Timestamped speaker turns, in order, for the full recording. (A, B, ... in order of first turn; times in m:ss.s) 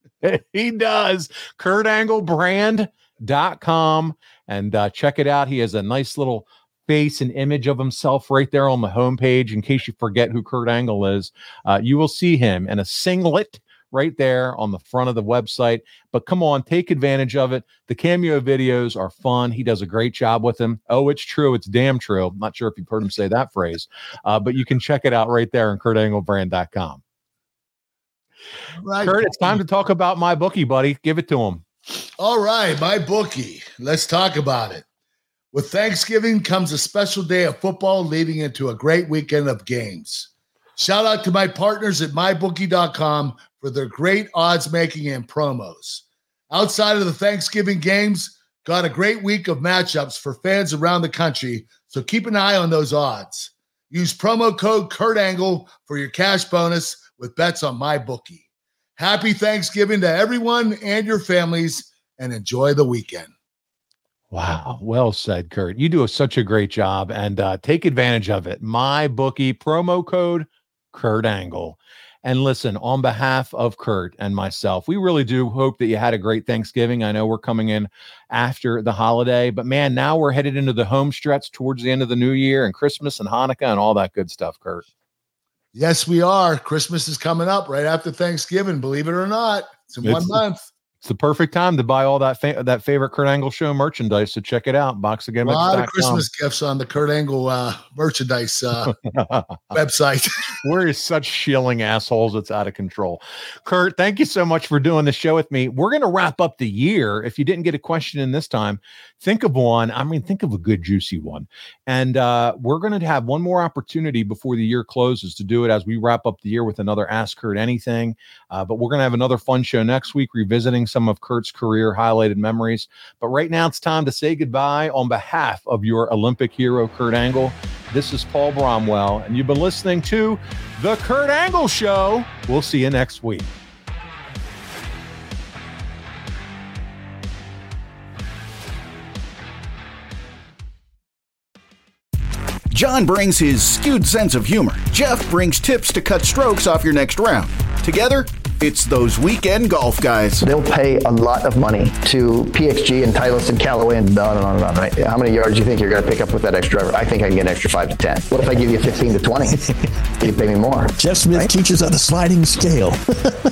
0:00.2-0:27.0 A
0:28.8-0:29.6 B
0:29.0-0:31.6 A
0:32.2-0:34.8 B
0:35.5-0:58.4 B
0:59.0-1:03.3 B
1:04.3-1:24.9 A
1:25.7-1:30.7 B
1:30.0-1:30.4 A
1:31.0-1:36.3 A
1:35.4-1:38.9 B
1:38.9-1:39.6 A
1:39.7-1:40.6 B
1:40.6-2:13.5 A
2:22.7-2:30.4 C
2:30.4-2:39.6 D
2:40.2-2:41.5 D
2:41.0-2:43.4 E